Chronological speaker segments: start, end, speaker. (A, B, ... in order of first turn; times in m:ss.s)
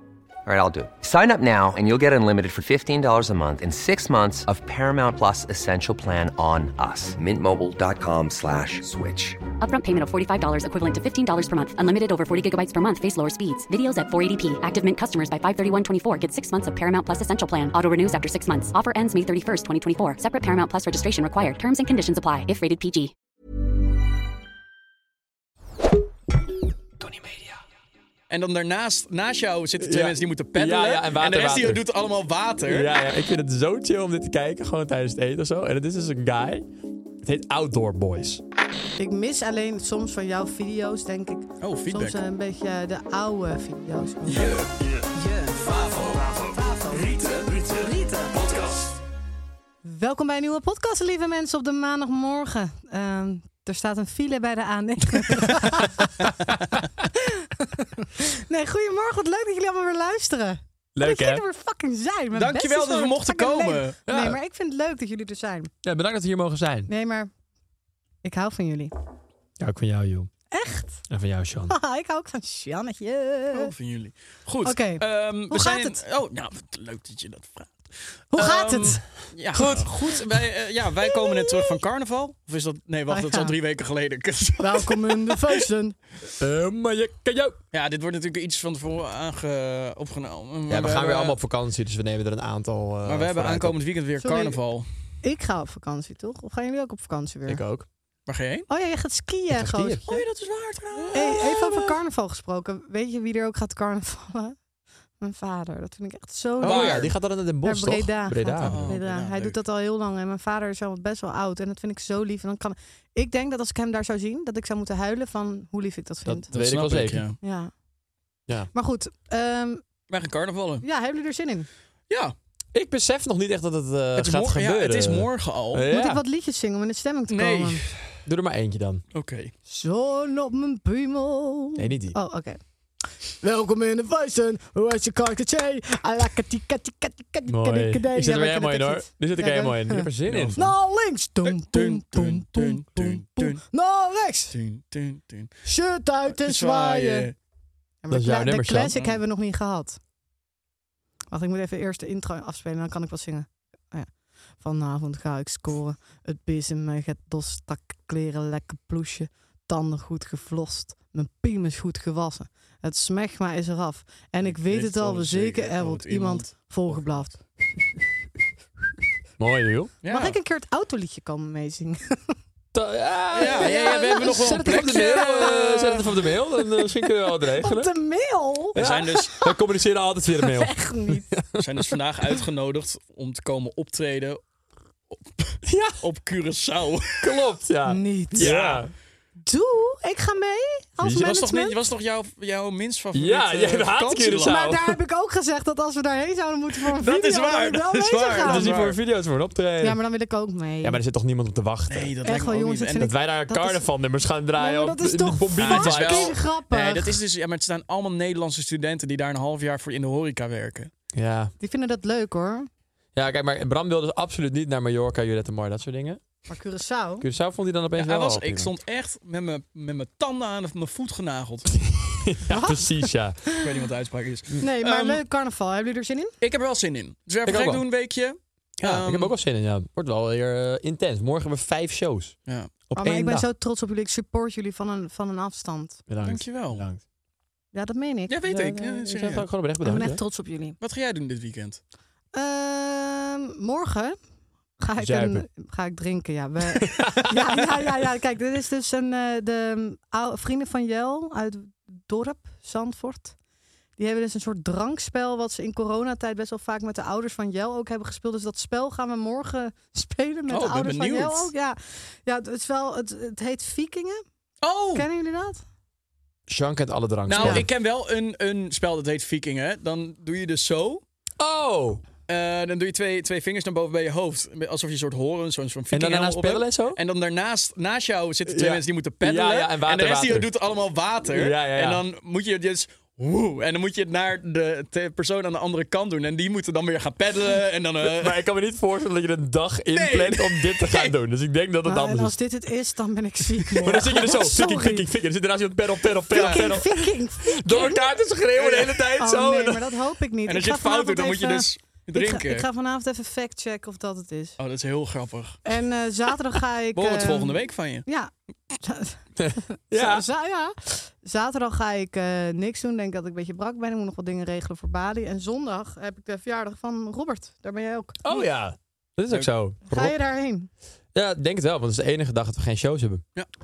0:00.4-0:09.4 A
0:09.6-0:23.1 B
0:27.1-0:27.4 C
0:28.3-0:32.9 D
0:29.8-0:31.9 C
0:32.6-0:36.7 C
0:37.2-0:38.4 C
0:39.0-0:44.6 E
0:41.6-0:42.2 D
0:44.3-0:46.2 D
0:49.8-0:56.3 E
0:57.1-1:05.7 E
1:01.0-1:01.4 C
1:02.3-1:04.0 D
1:04.1-1:04.4 C
1:05.8-1:06.9 C
1:06.9-1:07.3 E
1:08.2-1:08.9 E
1:09.6-1:10.3 C
1:10.5-1:11.0 E
1:11.1-1:11.7 C
1:11.7-1:13.7 E
1:13.5-1:25.4 D
1:14.6-1:16.0 E
1:18.3-1:19.0 E
1:19.5-1:20.4 C
1:23.1-1:23.5 E
1:24.6-1:26.0 E
1:26.4-1:27.6 C
1:27.7-1:31.4 D
1:30.7-1:33.8 C
1:33.0-1:34.8 D
1:34.2-1:34.6 E
1:35.2-1:37.6 E
1:37.5-1:37.9 C
1:38.3-1:38.7 D
1:38.7-1:40.2 E
1:39.5-1:40.0 C
1:40.1-1:41.9 D
1:41.1-1:44.6 E
1:45.2-1:47.1 E
1:46.6-1:47.1 D
1:46.6-1:48.9 C
1:47.6-1:56.5 E
1:48.6-1:49.6 D
1:56.2-1:57.3 C
1:56.5-1:57.4 D
1:57.4-1:57.7 E
1:58.7-1:59.8 E
2:00.1-2:00.8 D
2:00.8-2:01.7 E
2:02.1-2:02.3 D
2:02.7-2:06.2 C
2:04.2-2:05.9 D
2:05.9-2:07.8 E
2:07.3-2:08.0 D
2:08.2-2:09.0 C
2:09.1-2:09.5 D
2:09.7-2:12.6 E
2:11.8-2:12.2 C
2:13.4-2:24.6 E
2:17.5-2:20.6 C
2:20.3-2:20.6 D
2:21.4-2:23.6 D
2:24.5-2:25.5 D
2:25.6-2:27.3 E
2:26.3-2:27.3 D
2:28.0-2:30.0 E
2:28.1-2:28.9 C
2:28.9-2:29.2 D
2:31.3-2:47.4 E
2:44.4-2:47.1 D
2:49.4-2:49.9 C
2:50.0-2:50.4 D
2:50.1-2:52.3 E
2:52.7-2:57.9 C
2:53.3-2:55.5 D
2:53.4-2:59.5 E
2:58.7-2:59.4 D
2:58.7-3:01.8 C
3:00.4-3:01.3 E
3:01.6-3:04.4 D
3:05.1-3:07.4 D
3:05.6-3:06.0 C
3:07.2-3:08.9 C
3:07.9-3:08.5 E
3:08.4-3:08.8 D
3:09.4-3:11.8 E
3:11.0-3:14.5 D
3:13.1-3:15.0 C
3:14.4-3:18.7 E
3:16.9-3:19.0 D
3:18.4-3:20.0 C
3:19.8-3:21.0 E
3:20.8-3:22.1 C
3:21.9-3:23.1 D
3:22.2-3:23.8 E
3:22.9-3:26.4 C
3:24.6-3:27.2 E
3:25.6-3:30.9 D
3:31.1-3:31.5 C
3:31.6-3:32.7 E
3:33.2-3:36.2 C
3:36.5-3:37.2 E
3:37.2-3:38.7 C
3:38.0-3:41.7 D
3:41.8-3:43.4 C
3:42.5-3:43.6 E
3:43.6-3:45.2 D
3:44.6-3:46.3 E
3:46.4-3:49.3 D
3:47.4-3:47.8 C
3:48.8-3:52.4 C
3:52.9-3:53.5 C
3:52.9-3:56.0 E
3:56.1-3:57.0 C
3:56.2-3:56.8 D
3:57.7-3:58.4 E
3:58.3-3:59.5 D
3:58.5-4:00.2 C
3:59.8-4:00.8 E
4:00.8-4:01.8 D
4:02.3-4:04.2 E
4:04.8-4:13.3 E
4:05.0-4:05.4 C
4:06.8-4:07.6 C
4:14.0-4:24.2 E
4:20.5-4:21.5 D
4:24.6-4:25.1 D
4:24.9-4:25.6 E
4:26.5-4:27.7 C
4:27.3-4:31.0 D
4:27.4-4:27.6 E
4:31.4-4:32.0 C
4:32.3-4:48.4 D
4:35.9-4:37.0 C
4:38.4-4:40.5 C
4:41.2-4:42.0 C
4:48.0-4:52.4 C
4:49.9-4:51.1 D
4:51.8-4:55.1 E
4:53.8-4:59.9 C
4:56.3-4:58.0 E
4:56.3-4:56.7 D
4:58.5-4:59.0 D
4:59.2-5:04.6 E
5:00.5-5:02.6 D
5:04.6-5:05.6 D
5:05.6-5:18.2 E
5:06.9-5:08.0 D
5:09.4-5:10.2 C
5:18.2-5:20.2 C
5:19.9-5:20.7 E
5:21.1-5:23.2 C